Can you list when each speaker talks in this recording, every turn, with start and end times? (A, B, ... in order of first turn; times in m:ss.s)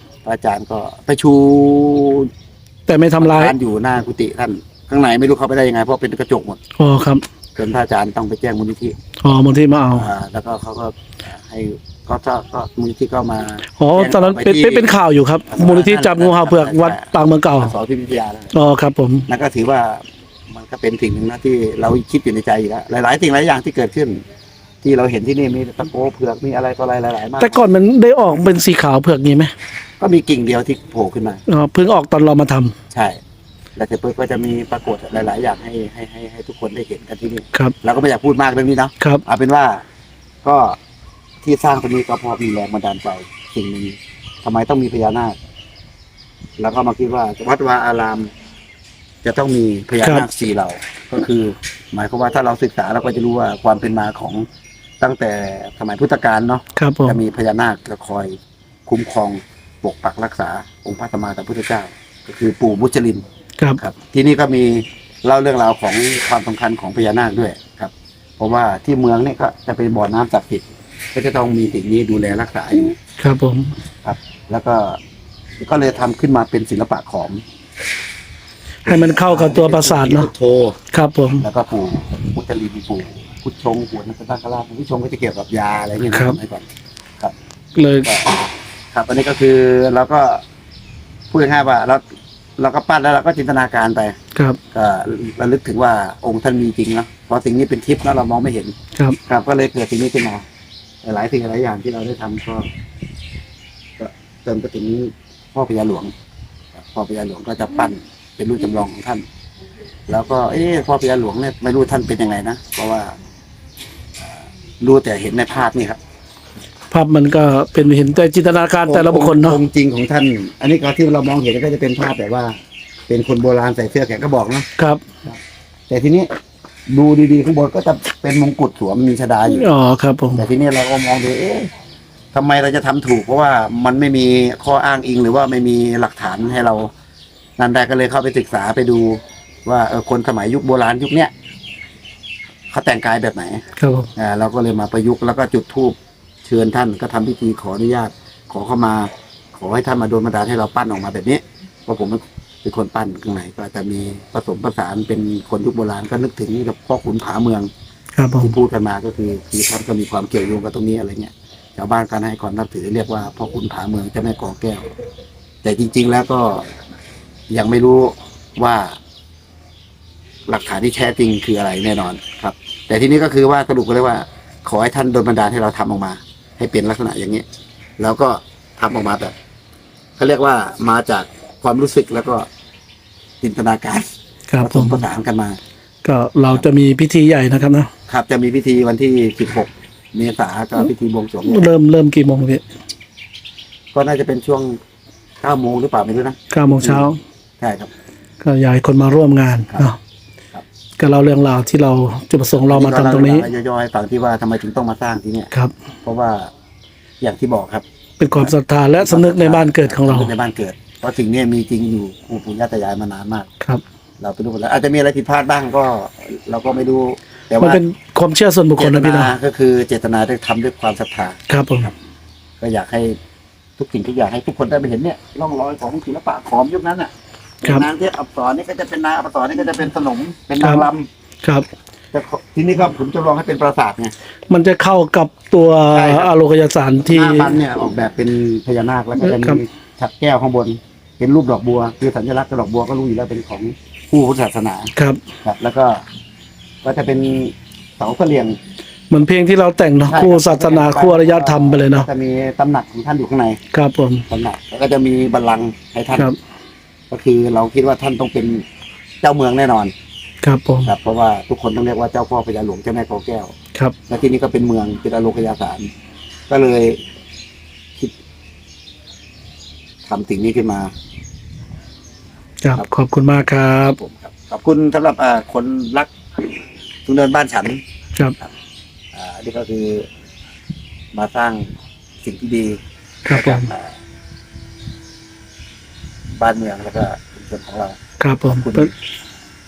0:00.2-0:02.3 A
0:02.9-0:03.5 B
0:03.2-0:06.6 A
0:06.8-0:07.2 B
0:07.6-0:09.0 A
0:09.2-0:10.1 B
0:09.9-0:15.0 A
0:13.8-0:17.7 B
0:15.5-0:18.5 A
0:18.5-0:19.3 B
0:19.3-0:24.2 A
0:24.8-0:27.6 A
0:27.4-0:29.5 B
0:30.0-0:31.4 A
0:31.5-0:32.7 B
0:32.9-0:33.2 A
0:33.8-0:39.8 A
0:40.4-0:40.8 A
0:41.4-0:45.4 A
0:46.6-0:48.3 A
0:49.2-0:54.4 A
0:55.0-0:58.4 A
0:56.8-0:57.2 B
0:58.9-1:03.2 A
1:03.8-1:13.0 A
1:13.2-1:13.7 B
1:14.0-1:15.0 A
1:15.6-1:17.4 A
1:18.9-1:20.3 B
1:18.9-1:20.8 A
1:20.9-1:21.4 B
1:21.4-1:26.7 A
1:26.1-1:26.4 B
1:27.8-1:28.1 B
1:28.0-1:30.4 A
1:31.3-1:32.0 A
1:32.6-1:34.2 A
1:34.7-1:38.8 A
1:39.3-1:40.4 A
1:41.0-1:42.7 A
1:44.0-1:46.1 A
1:46.8-1:49.2 A
1:50.1-1:53.2 A
1:54.8-1:56.0 A
1:56.9-1:59.6 B
1:58.9-2:02.6 A
2:03.1-2:04.7 A
2:05.9-2:06.3 A
2:06.9-2:09.7 A
2:09.5-2:10.4 B
2:10.4-2:11.7 A
2:12.3-2:16.9 A
2:17.6-2:21.3 A
2:22.7-2:23.6 A
2:23.8-2:24.1 B
2:24.2-2:37.7 A
2:38.2-2:38.5 B
2:38.4-2:44.9 A
2:45.6-2:46.7 A
2:47.5-2:49.0 A
2:50.5-2:57.4 A
2:58.0-2:59.3 A
3:00.2-3:02.5 A
3:03.4-3:04.1 A
3:04.5-3:05.0 B
3:04.6-3:05.6 A
3:06.0-3:07.9 B
3:08.1-3:11.7 A
3:11.4-3:12.6 B
3:13.9-3:14.8 A
3:15.4-3:17.1 A
3:16.5-3:17.2 B
3:17.6-3:17.9 A
3:18.4-3:20.0 B
3:21.0-3:23.5 B
3:22.6-3:25.5 A
3:26.0-3:26.5 A
3:27.2-3:33.5 A
3:28.2-3:30.3 B
3:34.2-3:37.8 A
3:37.6-3:39.3 B
3:38.8-3:41.9 A
3:41.5-3:41.9 B
3:42.6-3:43.2 A
3:43.8-3:47.1 A
3:47.6-3:51.1 A
3:50.6-3:50.9 B
3:52.1-3:54.1 A
3:54.5-3:57.5 B
3:55.9-3:56.3 A
3:57.1-4:04.9 A
3:59.2-3:59.6 B
4:05.4-4:06.0 A
4:06.8-4:08.6 A
4:09.1-4:12.1 B
4:10.1-4:13.6 A
4:13.7-4:14.2 B
4:14.3-4:16.3 A
4:17.1-4:18.6 A
4:19.2-4:19.9 A
4:20.4-4:20.9 B
4:20.8-4:23.5 A
4:24.1-4:25.9 A
4:26.5-4:27.0 A
4:30.1-4:30.9 A
4:32.6-4:34.0 B
4:34.0-4:36.1 A
4:37.1-4:37.8 A
4:39.1-4:40.1 A
4:41.1-4:43.9 A
4:43.3-4:43.7 B
4:46.4-4:48.9 A
4:48.2-4:48.9 B